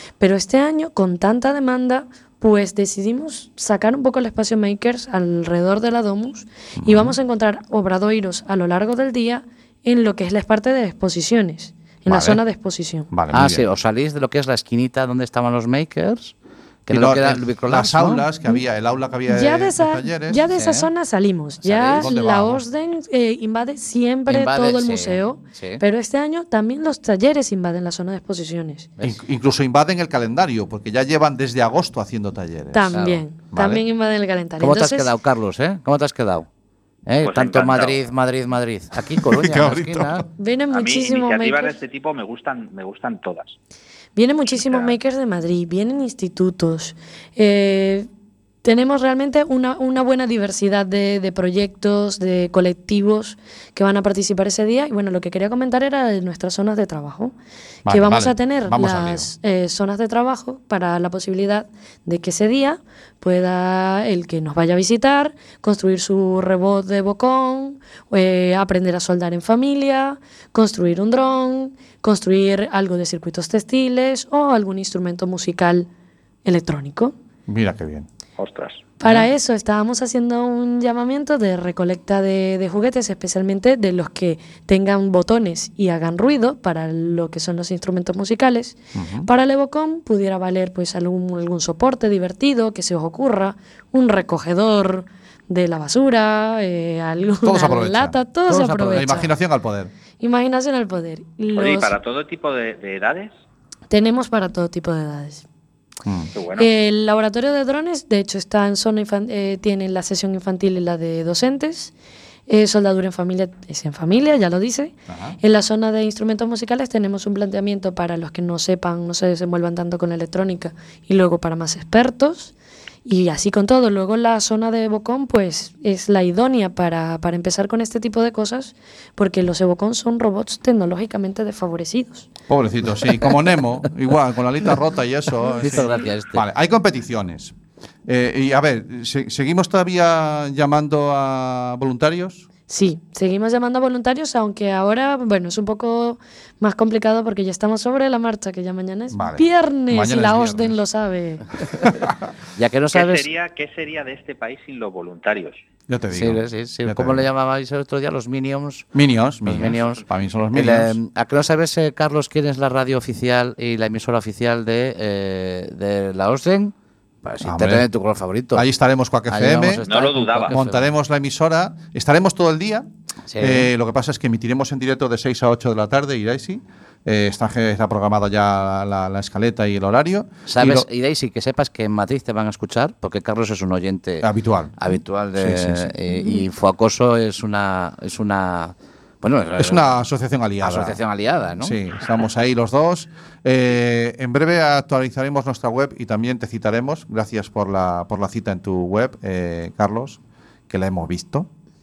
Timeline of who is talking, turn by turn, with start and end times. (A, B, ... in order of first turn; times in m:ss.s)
0:00.2-0:13.1 A
0:06.8-0:07.2 B
0:12.1-0:12.4 B
0:13.1-0:13.6 B
0:13.3-0:16.3 C
0:16.9-0:18.3 C
0:16.9-0:20.4 B
0:19.3-0:28.9 A
0:20.5-0:20.9 C
0:21.6-0:22.1 C
0:22.0-0:22.6 B
0:24.3-0:25.8 C
0:29.0-0:32.9 B
0:32.7-0:35.1 A
0:32.9-0:33.2 C
0:33.5-0:33.8 B
0:34.6-0:36.5 C
0:37.1-0:40.3 C
0:37.2-0:38.0 D
0:39.2-0:40.3 B
0:40.4-0:41.8 A
0:40.7-0:43.6 D
0:44.2-0:48.1 A
0:44.5-0:45.0 D
0:48.6-0:57.4 A
0:57.9-0:59.3 B
0:57.9-1:15.9 A
1:16.4-1:17.2 A
1:17.5-1:18.1 B
1:18.4-1:18.9 D
1:19.0-1:39.3 A
1:29.0-1:29.3 B
1:37.4-1:38.2 B
1:38.5-1:39.3 C
1:38.9-1:39.9 B
1:40.2-1:42.0 A
1:41.6-1:43.3 D
1:43.9-1:45.4 A
1:46.0-1:46.3 B
1:46.4-1:46.7 D
1:46.6-1:51.9 A
1:52.5-2:02.5 A
1:55.1-1:55.4 B
2:03.0-2:12.3 A
2:12.5-2:17.6 B
2:15.6-2:16.4 C
2:18.1-2:22.5 B
2:22.7-2:31.5 A
2:29.1-2:30.8 B
2:31.7-2:32.3 B
2:32.6-2:33.3 C
2:32.9-2:35.6 D
2:35.9-2:37.2 B
2:36.1-2:38.9 C
2:38.9-2:41.0 B
2:39.4-2:48.7 C
2:47.4-2:47.9 B
2:48.5-2:49.8 B
2:49.3-2:50.8 C
2:49.9-2:50.6 D
2:50.5-3:00.9 B
2:53.3-2:53.7 C
3:00.5-3:04.3 C
3:04.2-3:04.8 B
3:04.8-3:10.0 C
3:05.4-3:06.0 B
3:09.6-3:11.0 B
3:10.6-3:11.8 C
3:11.6-3:21.5 B